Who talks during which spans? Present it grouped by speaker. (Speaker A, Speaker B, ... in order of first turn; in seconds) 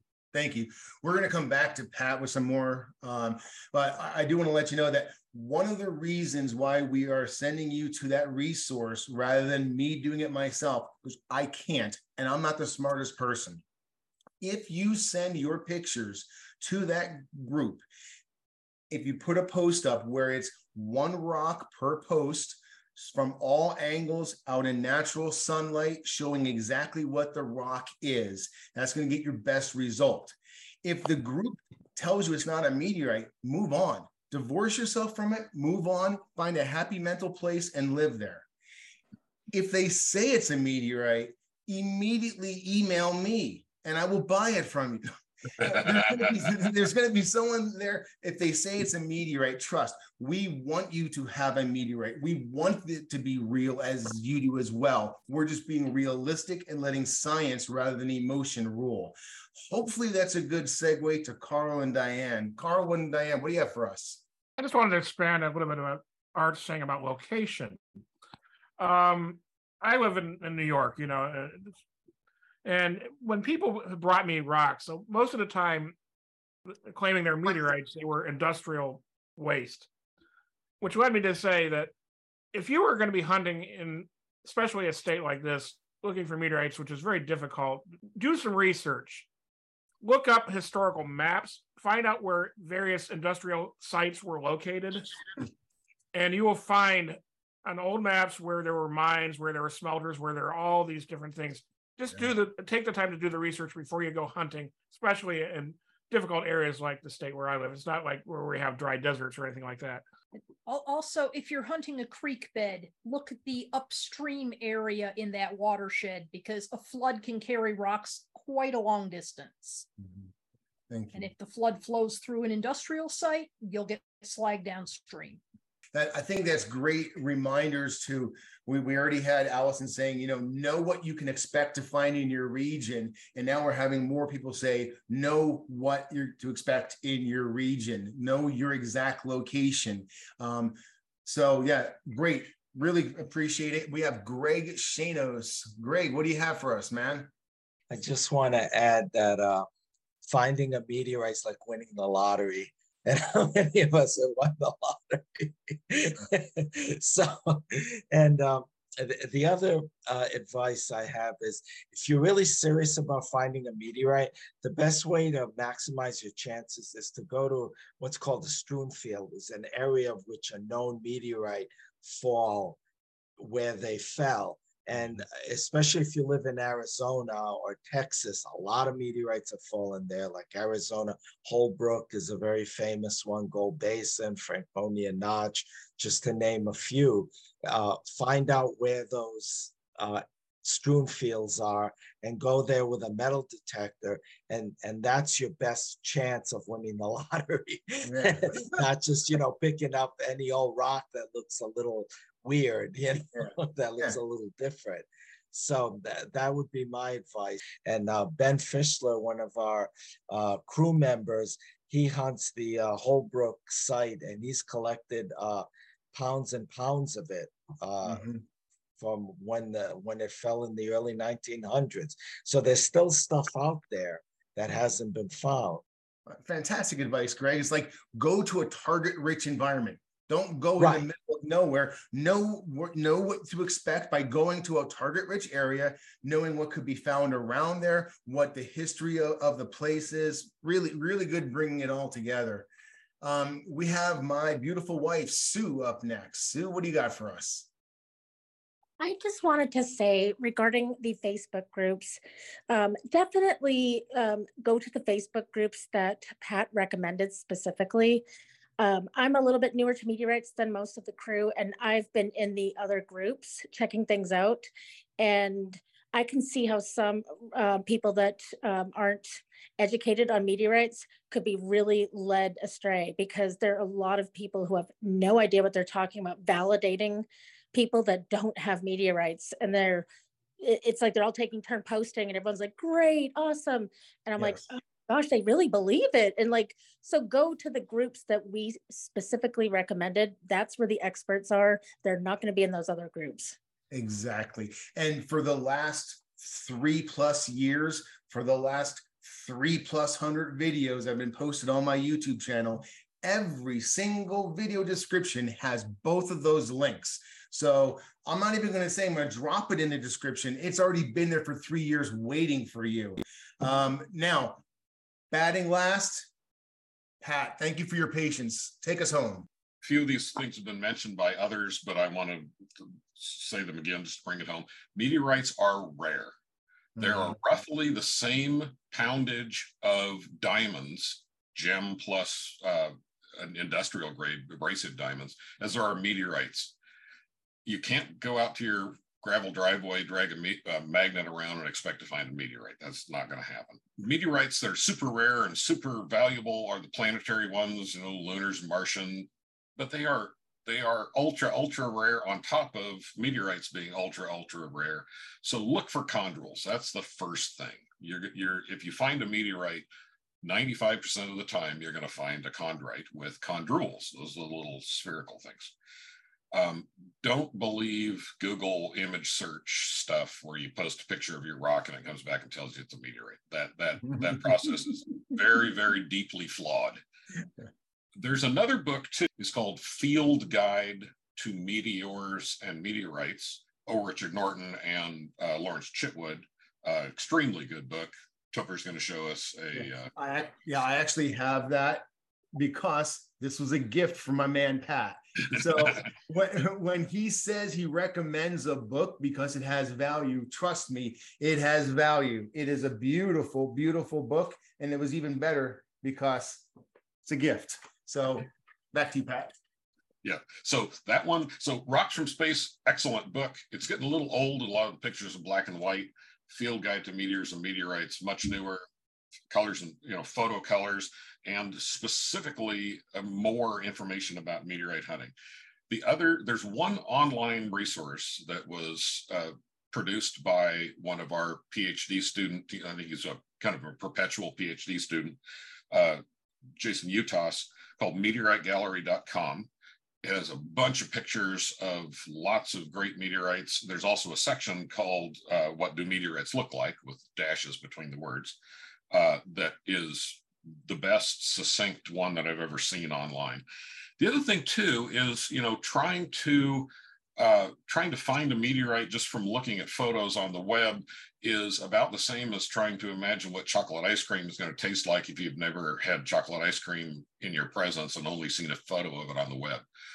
Speaker A: 0.3-13.6, 14.4-17.9, 18.9-38.5, 39.5-59.1, 59.7-64.2, 120.0-120.3, 120.9-121.3, 125.9-147.3, 198.0-198.6, 218.1-218.4, 226.3-242.7, 243.2-247.7, 284.4-284.6, 293.9-314.6, 315.3-316.3, 317.2-319.5, 327.0-327.4, 389.7-406.6, 407.2-409.5
Speaker B: 64.6-67.8, 68.8-71.7, 72.6-76.0, 76.7-79.9, 80.8-81.9, 82.5-89.3, 90.0-95.1, 96.1-110.0
Speaker C: 110.6-119.8, 121.1-125.4
Speaker D: 147.9-149.7, 150.2-172.8, 173.4-218.3, 219.0-225.8, 230.8-231.0
Speaker E: 249.0-258.2, 258.8-280.1, 280.6-293.6
Speaker F: 319.8-326.3, 327.0-336.7, 337.6-359.9, 360.4-365.7, 366.5-377.0, 378.2-390.1, 410.2-418.8, 419.5-425.3, 425.9-435.4, 435.9-436.2, 436.8-439.7, 440.2-448.6, 449.1-453.6, 454.2-469.8